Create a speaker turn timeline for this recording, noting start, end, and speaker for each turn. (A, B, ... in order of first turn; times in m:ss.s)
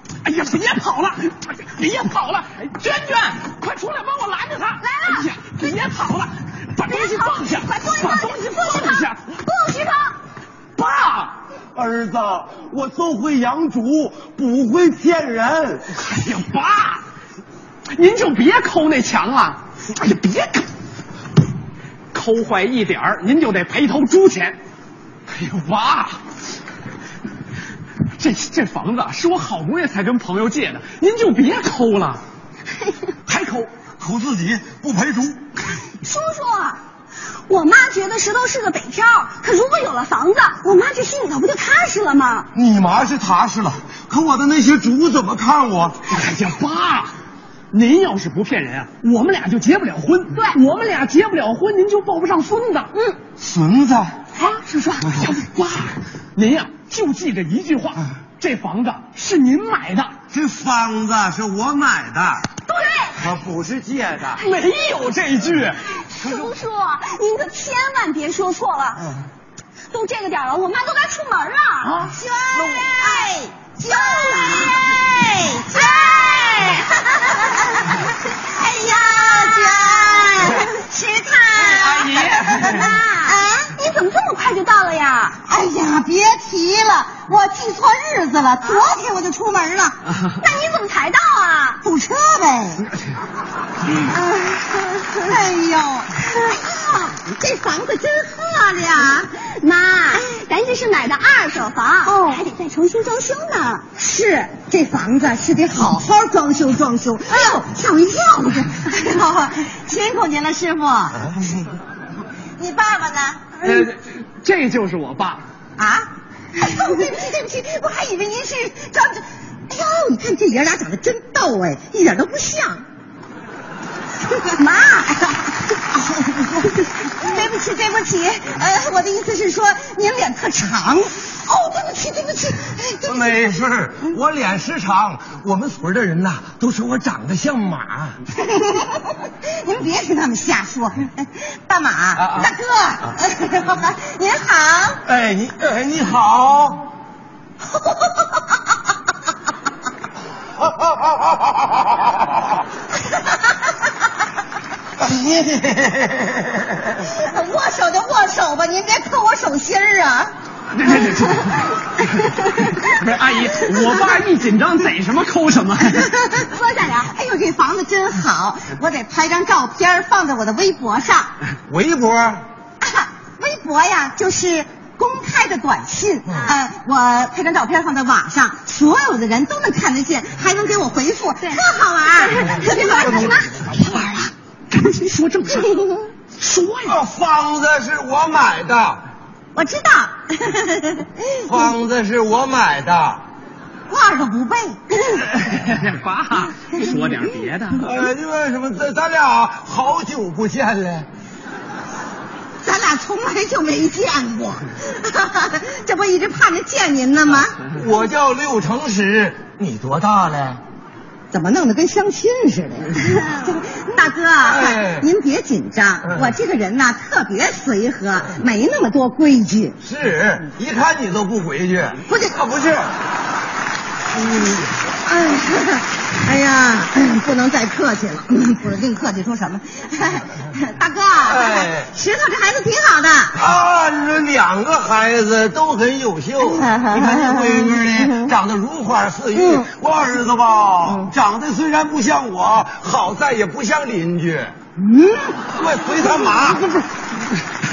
0:00.2-0:09.3 A
0:04.8-0:05.7 B
0:06.9-0:10.2 B
0:10.8-0:11.3 A
0:11.7-0:15.9 C
0:15.9-0:17.0 A
0:17.9-0:20.7 A
0:22.1-0:24.6 A
0:25.3-0:26.2 A
0:28.2-0:32.2 A
0:33.3-0:33.7 A
0:34.0-0:35.4 C
0:35.8-0:36.8 B
0:37.5-0:42.5 B
0:42.5-0:46.0 C
0:46.1-0:47.1 A
0:47.7-0:52.9 A
0:53.4-0:54.2 C
0:54.4-0:55.3 B
0:54.6-1:00.1 A
1:00.3-1:02.4 C
1:02.7-1:03.3 B
1:03.2-1:04.4 C
1:04.4-1:04.7 B
1:04.4-1:05.8 A
1:05.9-1:09.2 B
1:09.9-1:13.2 B
1:11.8-1:12.1 A
1:12.0-1:23.6 D
1:13.8-1:17.4 B
1:19.5-1:20.7 B
1:21.6-1:23.0 A
1:22.3-1:25.4 B
1:25.4-1:30.0 D
1:30.4-1:31.8 B
1:31.8-1:32.9 D
1:34.1-1:35.3 B
1:35.2-1:39.3 D
1:39.4-1:43.8 B
1:42.0-1:42.4 D
1:43.9-1:51.5 D
1:52.6-1:53.4 D
1:53.6-1:55.4 A
1:55.8-2:02.8 D
2:04.6-2:05.3 B
2:05.7-2:13.4 D
2:13.0-2:18.2 C
2:18.4-2:25.0 D
2:22.2-2:22.5 C
2:25.0-2:26.8 C
2:27.7-2:28.3 D
2:35.0-2:36.6 C
2:36.9-2:40.3 D
2:40.7-2:46.1 A
2:45.9-2:51.3 D
2:51.7-2:52.4 C
2:52.8-3:03.7 D
3:02.3-3:04.0 B
3:04.7-3:05.8 A
3:06.4-3:07.0 A
3:06.8-3:09.0 C
3:09.5-3:11.5 D
3:11.4-3:13.2 C
3:13.9-3:15.0 D
3:15.4-3:18.0 A
3:17.8-3:21.1 C
3:22.6-3:27.6 D
3:27.6-3:30.6 C
3:31.3-3:39.8 D
3:34.4-3:35.1 C
3:36.0-3:36.3 C
3:39.8-3:42.9 C
3:42.1-3:42.5 D
3:45.0-3:53.4 D
3:51.2-3:51.9 C
3:53.4-4:04.5 C
3:56.4-3:58.3 D
3:59.3-3:59.6 D
4:00.8-4:01.1 D
4:04.8-4:05.4 D
4:05.5-4:06.7 C